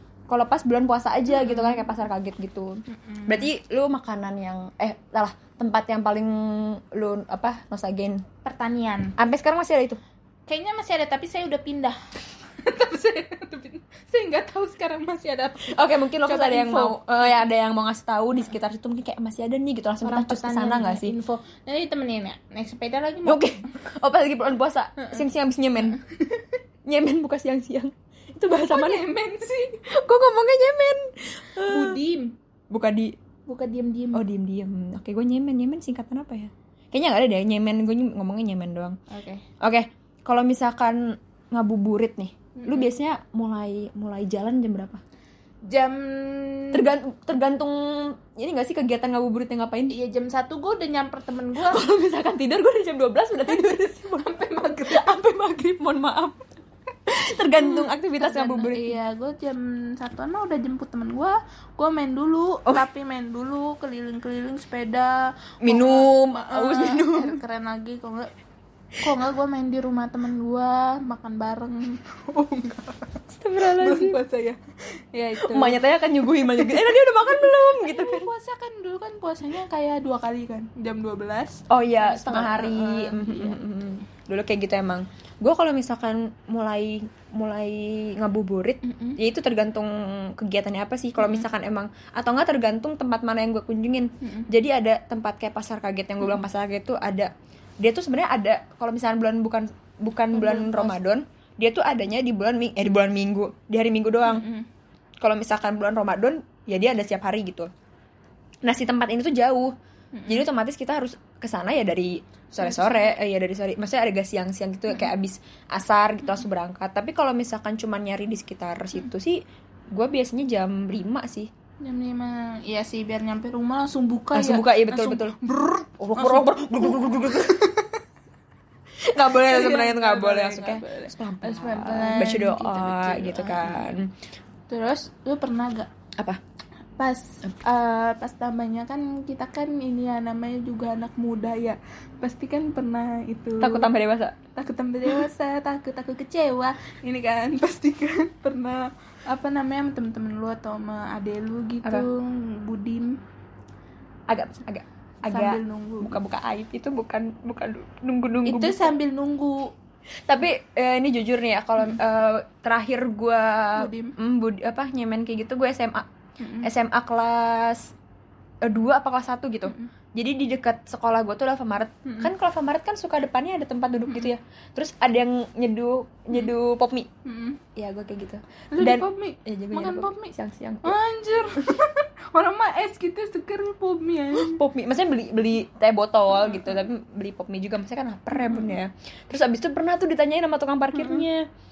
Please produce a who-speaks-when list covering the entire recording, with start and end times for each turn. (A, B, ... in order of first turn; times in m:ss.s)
0:00.3-0:08.2 A
0:01.3-0:01.8 B
0:02.9-0:03.5 B
0:08.4-0:09.2 B
0:09.2-0:10.0 A
0:10.5-0:12.0 B
0:12.6-0:17.0 B
0:15.7-0:21.1 A
0:20.0-0:23.4 B
0:23.2-0:26.0 A
0:25.9-0:26.4 B
0:26.8-0:29.1 A
0:28.6-0:29.8 B
0:29.9-0:32.0 A
0:31.6-0:32.4 B
0:32.7-0:33.2 A
0:33.5-0:34.2 B
0:34.1-0:39.0 A
0:39.1-0:39.4 B
0:39.6-0:45.0 A
0:42.6-0:42.9 B
0:45.6-0:46.9 B
0:46.7-0:49.9 A
0:49.9-0:51.8 B
0:51.6-0:56.5 A
0:53.6-0:55.4 B
0:57.1-0:59.0 A
0:57.5-1:08.3 B
1:05.6-1:07.4 A
1:09.0-1:14.6 B
1:13.3-1:14.2 A
1:15.1-1:23.6 B
1:15.4-1:18.3 A
1:21.7-1:44.4 A
1:28.8-1:29.2 B
1:31.2-1:31.4 B
1:34.2-1:34.5 B
1:40.3-1:41.0 B
1:44.2-1:44.6 B
1:45.2-1:47.7 A
1:48.6-1:49.7 A
1:50.1-1:50.4 B
1:50.3-2:01.5 A
1:52.6-1:53.2 B
2:01.8-2:08.0 B
2:04.3-2:05.4 A
2:06.0-2:07.6 A
2:09.0-2:14.1 A
2:09.3-2:14.0 B
2:14.7-2:15.9 B
2:17.0-2:23.9 B
2:23.6-2:24.3 A
2:24.5-2:33.2 B
2:34.3-2:38.9 A
2:35.3-2:36.2 B
2:38.4-2:39.7 B
2:40.3-2:46.1 A
2:43.8-2:44.1 B
2:46.4-2:46.7 B
2:46.6-2:47.9 A
2:48.6-2:57.1 A
2:52.0-2:52.3 B
2:57.2-2:57.6 B
2:57.8-3:01.0 A
2:58.7-3:04.6 B
3:04.4-3:11.5 A
3:06.4-3:06.8 B
3:08.4-3:08.7 B
3:11.0-3:11.2 B